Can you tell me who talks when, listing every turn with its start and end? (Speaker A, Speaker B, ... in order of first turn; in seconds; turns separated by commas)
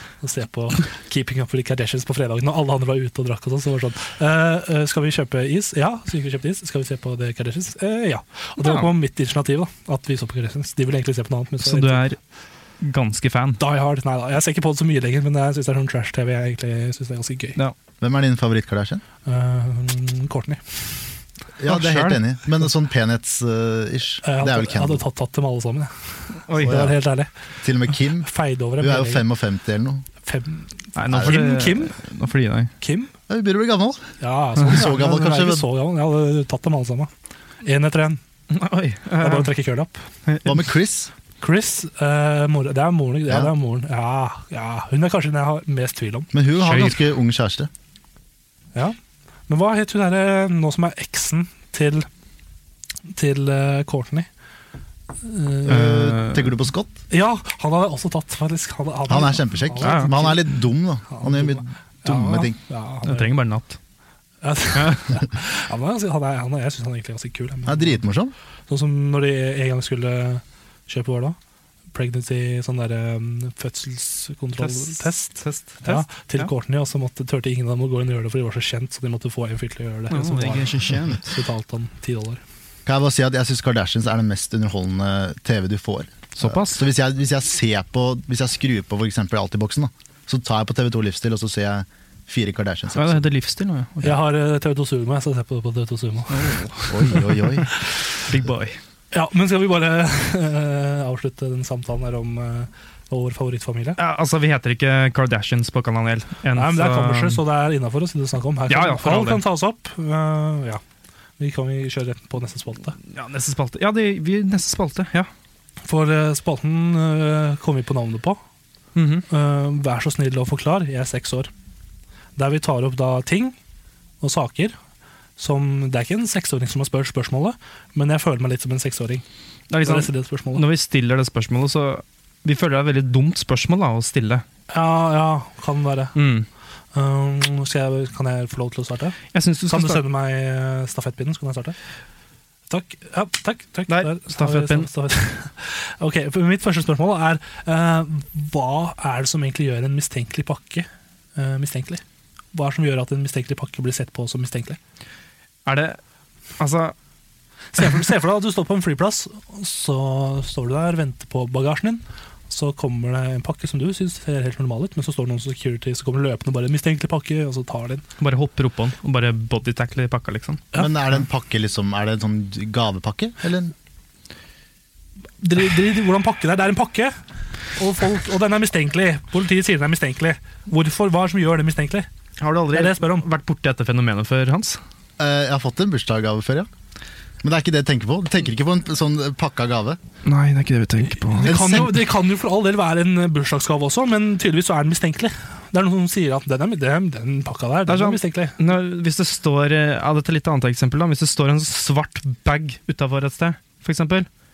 Speaker A: 0.2-12.1, Speaker B: 8.6-8.9, Speaker B: 11.6-12.2, Speaker B: 12.8-13.6, Speaker A: 13.6-17.6, Speaker C: 18.0-19.0, Speaker A: 19.2-21.0, Speaker C: 21.6-25.0, Speaker B: 21.7-22.2, Speaker A: 24.2-27.3, Speaker B: 26.5-26.9, Speaker C: 26.6-26.9, Speaker C: 27.6-28.3, Speaker A: 28.2-29.2, Speaker C: 28.8-30.1, Speaker A: 30.2-32.0, Speaker B: 30.9-32.7, Speaker C: 31.1-31.4, Speaker A: 32.8-33.1, Speaker C: 33.3-35.6, Speaker A: 34.2-37.1, Speaker A: 37.6-38.2, Speaker B: 38.5-39.5, Speaker A: 39.2-40.0, Speaker B: 40.3-40.6, Speaker C: 40.4-41.1, Speaker A: 41.4-46.3, Speaker C: 46.3-47.7, Speaker B: 46.6-47.0, Speaker A: 49.5-52.1, Speaker A: 53.1-54.3, Speaker A: 55.2-55.9, Speaker C: 55.6-57.0, Speaker B: 55.7-56.5, Speaker A: 57.1-60.4, Speaker C: 59.1-62.6, Speaker B: 59.8-60.1, Speaker A: 61.1-63.3, Speaker B: 63.0-63.8, Speaker A: 64.4-68.0, Speaker B: 64.8-65.0, Speaker C: 67.7-68.3, Speaker A: 68.7-71.4, Speaker A: 71.9-82.4, Speaker B: 74.6-76.5, Speaker B: 80.1-81.3, Speaker C: 82.8-93.2, Speaker B: 86.3-86.8, Speaker B: 93.0-94.2, Speaker A: 94.0-97.8, Speaker B: 96.3-97.5, Speaker C: 96.9-97.7, Speaker B: 98.2-98.8, Speaker A: 99.1-104.0, Speaker B: 104.0-107.4, Speaker A: 106.5-110.8, Speaker B: 108.7-109.4, Speaker A: 111.4-113.0, Speaker B: 113.1-115.3, Speaker A: 115.8-118.4, Speaker B: 118.9-119.2, Speaker A: 119.3-121.5, Speaker A: 122.3-123.5, Speaker A: 124.2-124.7, Speaker A: 125.4-129.2, Speaker B: 129.7-134.4, Speaker A: 129.8-130.6, Speaker A: 134.7-136.2, Speaker B: 136.1-136.4, Speaker A: 136.9-139.2, Speaker B: 139.3-140.0, Speaker A: 139.7-141.8, Speaker A: 142.7-154.8, Speaker B: 143.9-144.9, Speaker B: 155.7-156.0, Speaker B: 156.6-156.9, Speaker A: 157.7-168.0, Speaker B: 168.2-170.7, Speaker C: 170.8-173.7, Speaker A: 175.4-177.2, Speaker A: 177.8-182.1, Speaker B: 182.4-184.8, Speaker A: 182.7-183.2, Speaker C: 185.2-186.7, Speaker C: 187.4-190.0, Speaker B: 190.2-191.8, Speaker A: 191.3-198.6, Speaker C: 191.4-191.9, Speaker B: 197.9-204.3